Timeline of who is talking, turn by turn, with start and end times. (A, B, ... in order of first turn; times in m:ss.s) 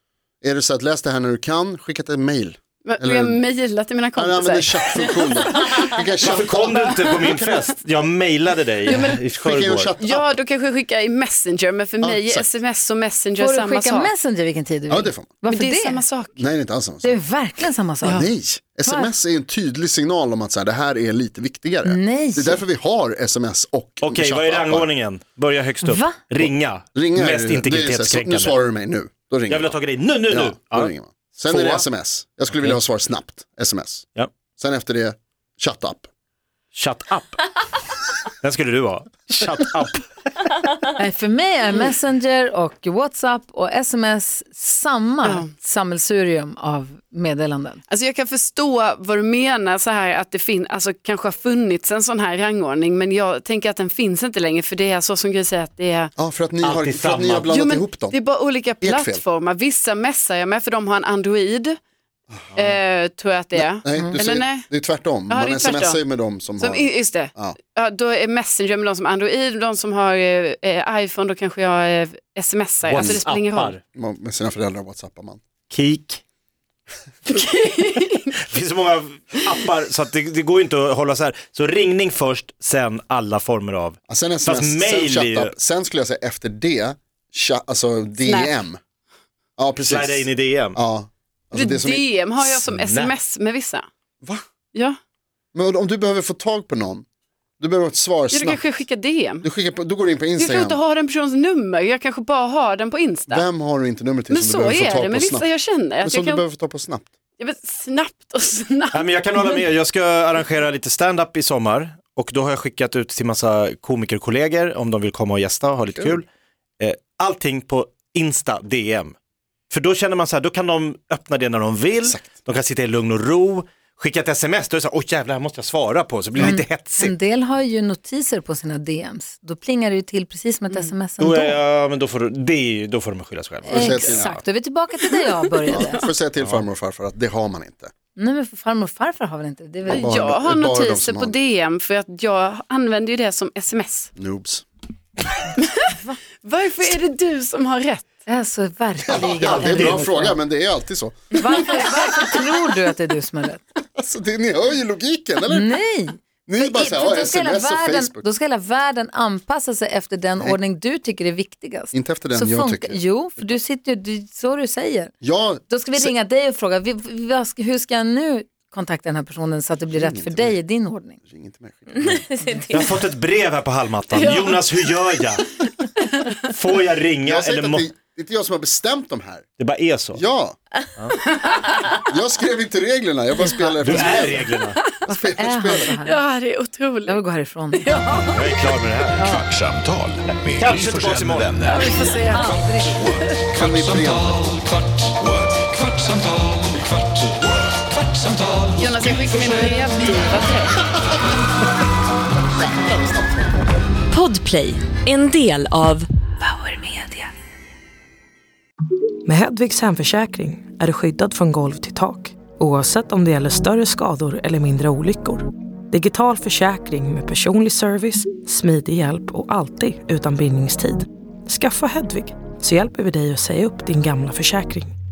0:00.4-0:03.4 A
0:02.8-0:06.0 B
0:04.2-0:07.1 A
0:06.2-0:09.9 C
0:06.6-0:07.6 B
0:08.9-0:09.2 B
0:08.9-0:10.3 A
0:10.0-0:14.1 B
0:12.0-0:12.5 A
0:13.4-0:16.0 D
0:14.9-0:15.4 A
0:15.5-0:16.4 B
0:16.4-0:17.2 A
0:17.0-0:18.3 D
0:18.0-0:24.9 A
0:18.8-0:19.1 D
0:21.8-0:22.6 D
0:24.0-0:28.6 C
0:25.8-0:26.2 D
0:26.4-0:34.0 A
0:29.5-0:31.9 C
0:34.6-0:36.1 A
0:36.7-0:37.6 C
0:38.4-0:40.5 C
0:41.0-0:47.8 D
0:47.9-0:56.1 B
0:56.2-0:58.2 A
0:56.6-0:57.5 C
0:57.5-1:01.8 B
0:58.8-0:59.2 A
1:02.3-1:02.8 A
1:02.5-1:04.7 B
1:03.5-1:07.6 A
1:05.3-1:06.0 B
1:06.6-1:13.8 B
1:12.9-1:13.8 C
1:12.9-1:13.2 A
1:13.9-1:15.4 A
1:15.7-1:16.2 C
1:17.3-1:18.3 B
1:18.3-1:25.5 C
1:24.1-1:28.8 A
1:28.2-1:28.6 B
1:29.6-1:32.1 A
1:29.8-1:30.8 C
1:31.5-1:33.8 B
1:32.4-1:33.1 C
1:35.5-1:37.0 A
1:37.6-1:38.6 A
1:38.3-1:39.4 B
1:39.4-1:40.8 A
1:40.4-1:43.4 B
1:43.3-1:47.1 A
1:44.3-1:46.4 B
1:47.4-1:49.6 B
1:48.9-1:56.2 C
1:56.8-1:59.1 C
1:59.7-2:07.1 C
2:02.0-2:02.3 A
2:06.4-2:11.6 D
2:11.2-2:14.4 C
2:13.6-2:16.1 D
2:13.7-2:14.3 A
2:15.7-2:17.9 A
2:18.1-2:20.1 D
2:19.8-2:21.3 A
2:19.9-2:24.1 B
2:24.2-2:24.6 A
2:25.6-2:28.1 B
2:25.9-2:26.2 D
2:28.2-2:30.4 D
2:29.0-2:31.7 A
2:29.1-2:30.0 C
2:31.3-2:33.6 D
2:34.0-2:35.8 A
2:35.5-2:45.1 D
2:36.4-2:38.3 A
2:41.9-2:43.6 A
2:45.2-2:46.1 A
2:45.7-2:51.2 D
2:49.9-2:50.6 A
2:51.2-2:52.3 A
2:52.1-2:53.0 E
2:52.7-2:55.5 C
2:54.1-2:55.0 B
2:55.6-2:56.4 B
2:56.4-2:57.8 C
2:57.2-2:59.4 A
2:59.6-3:00.2 C
3:00.1-3:00.6 A
3:01.2-3:01.9 B
3:02.0-3:04.5 A
3:03.8-3:04.8 C
3:03.9-3:04.4 B
3:05.0-3:06.0 A
3:05.1-3:06.2 D
3:06.0-3:07.2 B
3:07.0-3:08.4 D
3:07.7-3:08.4 B
3:08.1-3:09.3 C
3:09.2-3:09.4 D
3:09.2-3:12.1 F
3:10.5-3:11.7 C
3:11.6-3:13.4 B
3:12.3-3:13.0 D
3:13.5-3:14.6 A
3:15.2-3:16.8 F
3:18.5-3:18.8 F
3:18.8-3:20.8 B
3:22.8-3:23.6 A
3:24.1-3:26.1 E
3:26.7-3:27.0 G
3:29.2-3:45.0 G